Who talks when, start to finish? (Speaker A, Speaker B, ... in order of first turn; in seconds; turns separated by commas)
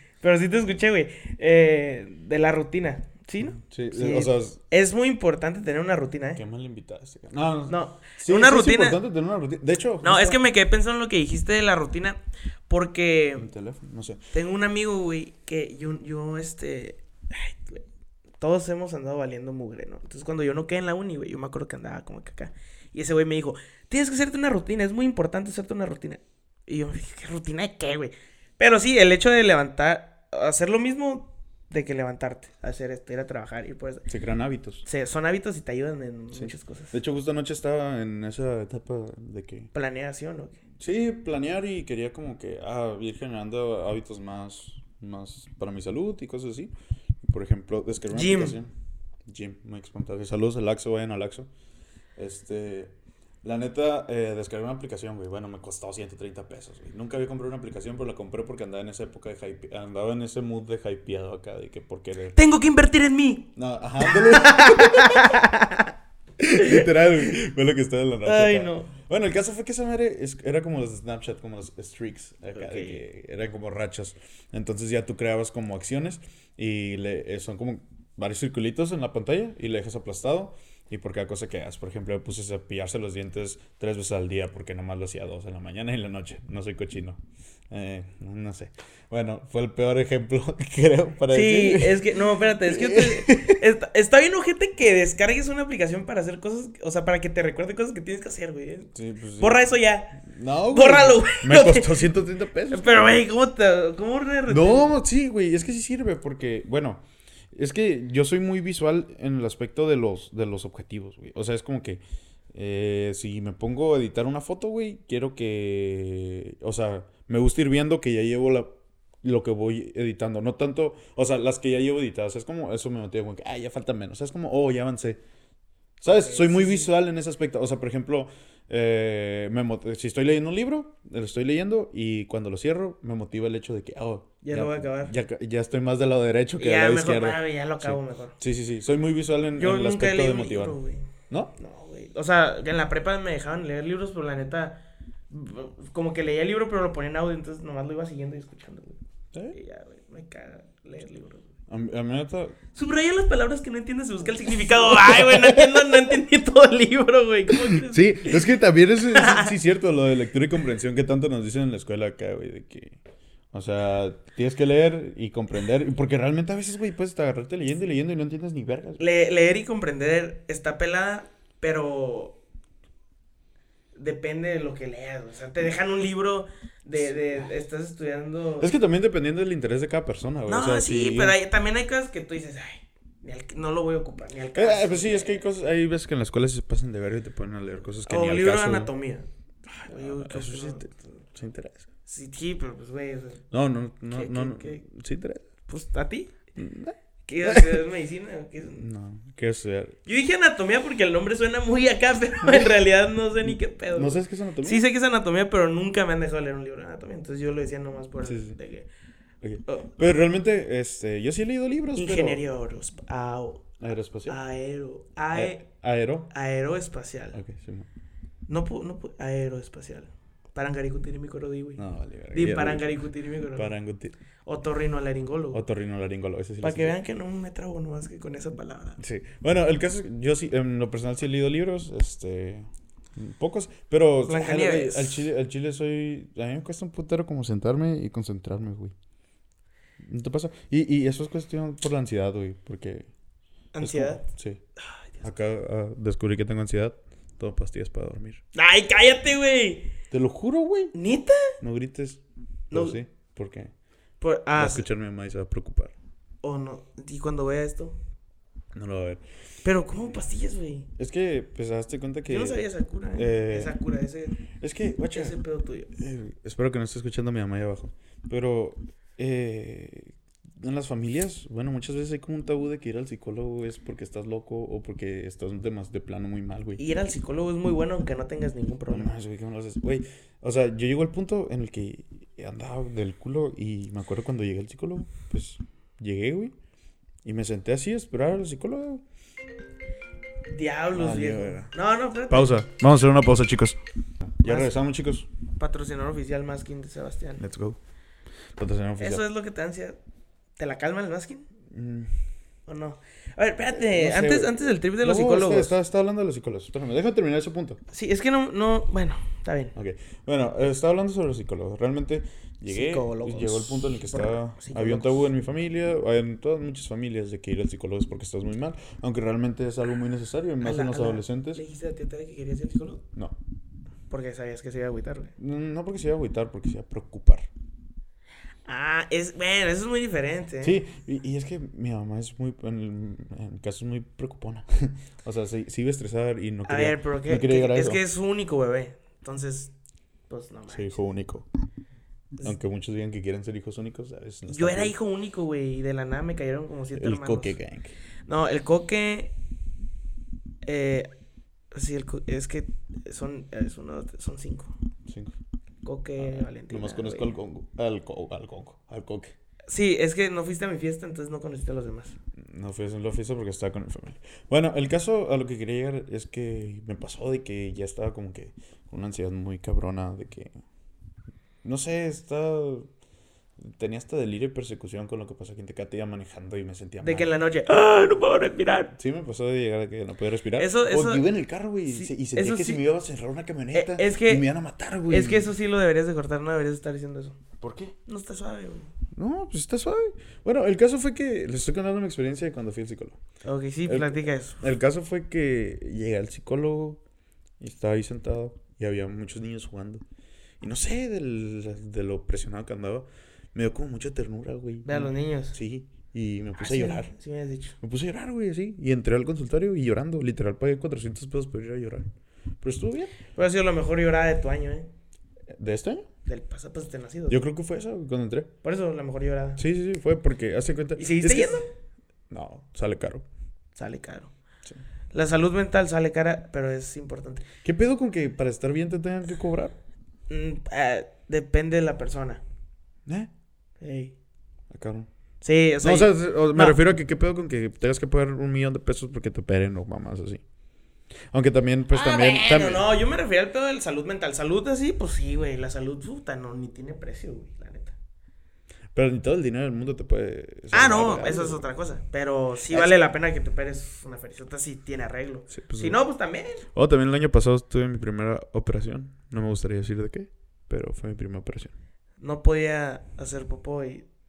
Speaker A: 0.2-6.4, Speaker B: 3.5-4.6, Speaker B: 6.3-10.4, Speaker A: 7.7-9.0, Speaker A: 10.0-13.5, Speaker B: 13.3-14.2, Speaker A: 14.3-17.8, Speaker A: 18.4-34.0, Speaker B: 34.1-34.8, Speaker A: 34.8-36.9, Speaker B: 36.3-39.7, Speaker A: 39.7-40.6, Speaker B: 40.8-46.7, Speaker B: 47.2-48.7, Speaker A: 48.1-48.6, Speaker B: 49.2-51.5, Speaker B: 52.1-62.4, Speaker A: 62.3-65.9, Speaker B: 63.5-65.4, Speaker B: 66.4-93.6, Speaker A: 66.5-67.3, Speaker A: 68.2-68.9, Speaker A: 72.6-73.0, Speaker A: 91.3-102.1, Speaker B: 98.9-103.2, Speaker A: 102.7-104.9, Speaker B: 104.5-112.0, Speaker B: 112.5-125.2, Speaker B: 126.0-141.5, Speaker A: 126.0-126.9, Speaker A: 134.4-135.1, Speaker A: 136.6-138.4, Speaker A: 139.6-149.0, Speaker A: 149.5-151.5, Speaker B: 151.7-152.6, Speaker A: 152.7-159.5, Speaker B: 154.7-156.1, Speaker B: 157.7-163.0, Speaker B: 163.5-169.0, Speaker A: 169.0-172.4, Speaker A: 173.9-178.7, Speaker B: 178.6-181.4, Speaker A: 180.5-185.4, Speaker B: 184.5-188.9, Speaker A: 188.1-190.8, Speaker B: 189.8-191.9, Speaker A: 192.1-193.4, Speaker B: 193.5-195.4, Speaker A: 194.1-194.8, Speaker A: 195.7-196.4, Speaker B: 196.6-197.8, Speaker A: 197.3-198.9, Speaker B: 198.8-200.0, Speaker A: 200.1-208.9, Speaker B: 202.4-202.7, Speaker B: 203.4-204.8, Speaker B: 208.2-208.6, Speaker B: 209.4-212.4, Speaker A: 209.6-209.9, Speaker A: 211.9-213.6, Speaker B: 213.8-214.4, Speaker A: 214.3-215.6, Speaker B: 215.3-216.3, Speaker A: 216.3-217.4, Speaker B: 217.3-217.9, Speaker A: 218.5-223.7, Speaker B: 221.8-222.9, Speaker B: 223.5-224.2, Speaker A: 224.4-225.6, Speaker B: 225.5-227.0, Speaker A: 226.6-229.0, Speaker B: 229.0-238.9, Speaker A: 234.3-235.3, Speaker B: 240.0-243.1, Speaker A: 243.7-244.2, Speaker B: 243.8-244.6, Speaker B: 245.2-248.4, Speaker A: 248.5-249.9, Speaker B: 250.1-250.9, Speaker A: 250.9-251.6, Speaker B: 251.6-253.7, Speaker A: 252.7-253.0, Speaker A: 254.2-254.9, Speaker B: 254.6-255.9, Speaker A: 256.4-258.0, Speaker B: 258.7-259.2, Speaker A: 259.6-260.9, Speaker B: 260.9-263.8, Speaker A: 262.3-264.4, Speaker B: 264.6-265.4, Speaker A: 265.1-265.9, Speaker B: 265.9-276.8, Speaker A: 276.8-279.1, Speaker B: 278.9-286.5, Speaker B: 287.2-289.0, Speaker A: 290.5-292.5, Speaker B: 290.9-291.7, Speaker B: 292.3-295.3, Speaker A: 294.4-294.7, Speaker A: 295.6-297.4, Speaker B: 297.4-297.8, Speaker B: 298.6-299.2, Speaker A: 299.0-300.0, Speaker A: 300.6-301.5, Speaker B: 301.7-302.1, Speaker A: 302.7-305.7, Speaker B: 303.7-307.8, Speaker A: 307.9-309.7, Speaker B: 309.7-321.6, Speaker A: 312.7-315.2, Speaker A: 320.6-323.0, Speaker A: 324.1-325.3, Speaker B: 325.4-327.5, Speaker A: 328.7-330.8, Speaker B: 330.6-338.0, Speaker A: 336.6-339.7, Speaker A: 340.3-341.0, Speaker B: 340.7-341.5, Speaker B: 342.4-344.9, Speaker A: 344.5-347.6, Speaker B: 346.9-347.9, Speaker A: 348.2-349.3, Speaker A: 350.6-351.1, Speaker A: 351.7-354.7, Speaker B: 355.1-355.3, Speaker A: 355.8-357.3, Speaker B: 356.2-359.3, Speaker A: 359.7-362.1, Speaker B: 362.4-370.5, Speaker B: 371.6-372.9, Speaker B: 373.6-377.3, Speaker A: 377.0-378.9, Speaker B: 378.9-385.5, Speaker A: 380.6-381.2, Speaker A: 381.9-382.8, Speaker A: 383.7-384.5, Speaker A: 385.1-387.4, Speaker B: 387.6-387.9, Speaker A: 388.1-388.9, Speaker B: 389.1-393.2, Speaker A: 393.4-394.6, Speaker B: 393.9-397.0, Speaker B: 397.6-400.0, Speaker B: 400.6-407.1, Speaker A: 404.8-405.6, Speaker A: 406.6-407.8, Speaker B: 407.8-412.1, Speaker B: 412.6-413.1, Speaker A: 413.3-414.9, Speaker B: 415.5-416.1, Speaker A: 416.2-417.4, Speaker B: 417.3-418.5, Speaker A: 418.6-419.6, Speaker B: 419.6-421.6, Speaker A: 421.0-421.6, Speaker B: 422.3-423.2, Speaker A: 423.8-424.3, Speaker A: 425.1-427.4, Speaker B: 427.6-429.8, Speaker A: 430.3-432.4, Speaker B: 433.1-433.3, Speaker A: 433.8-434.1, Speaker B: 434.7-435.1, Speaker A: 435.4-436.8, Speaker B: 435.8-440.4, Speaker B: 441.3-442.9, Speaker A: 441.9-447.9, Speaker B: 448.9-451.6, Speaker A: 450.7-456.6, Speaker B: 452.7-452.9, Speaker B: 455.5-456.0, Speaker B: 456.7-461.7, Speaker A: 462.2-464.1